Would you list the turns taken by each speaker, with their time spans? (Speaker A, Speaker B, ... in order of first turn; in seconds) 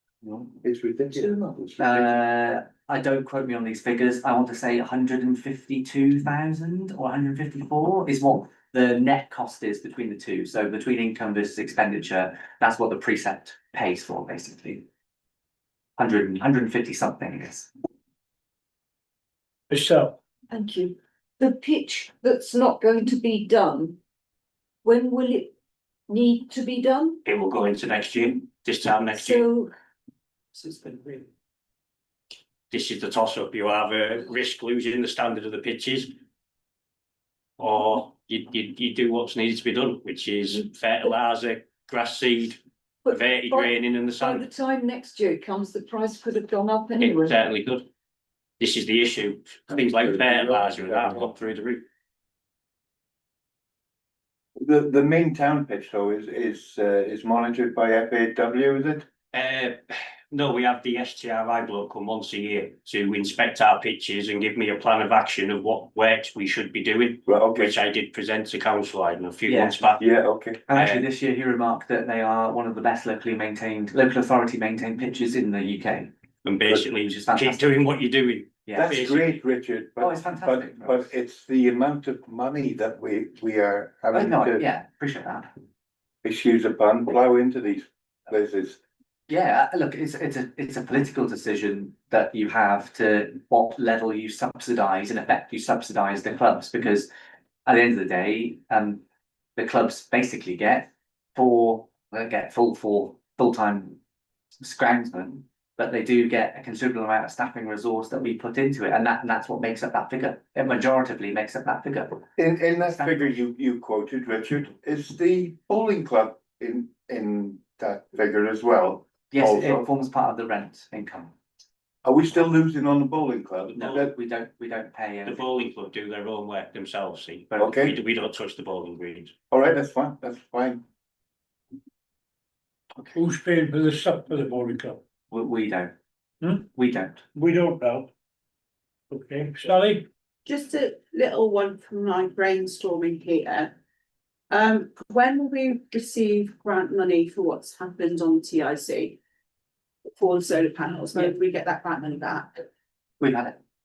Speaker A: 0.2-0.5, 1.8-14.8, 16.0-17.7, 69.5-70.0, 70.7-76.1, 76.9-77.7, 78.7-79.1, 80.0-81.1, 84.1-85.5, 89.3-97.1, 97.7-99.0, 99.6-104.0, 104.6-112.3, 112.8-113.3, 119.3-121.3, 123.7-125.4, 135.3-135.9, 136.7-137.2, 153.2-153.6
Speaker B: 0.6-2.1, 49.9-51.3, 54.6-59.0, 67.3-67.8, 70.0-70.6, 78.8-84.7, 86.2-88.8, 112.4-119.9, 122.0-124.1, 127.6-128.0, 129.5-130.8
Speaker C: 19.7-20.2, 133.1-135.0, 137.3-138.1, 139.1-140.1
Speaker D: 20.5-24.0, 24.8-25.5, 26.1-27.2, 29.1-29.7, 30.6-31.3, 43.0-47.4
Speaker E: 27.2-29.4, 32.7-36.1, 37.6-44.5, 47.0-47.9, 48.6-51.8, 59.3-70.0, 70.7-71.0, 76.4-79.3, 125.2-129.3
Speaker F: 140.4-143.7, 144.5-149.2, 150.2-152.7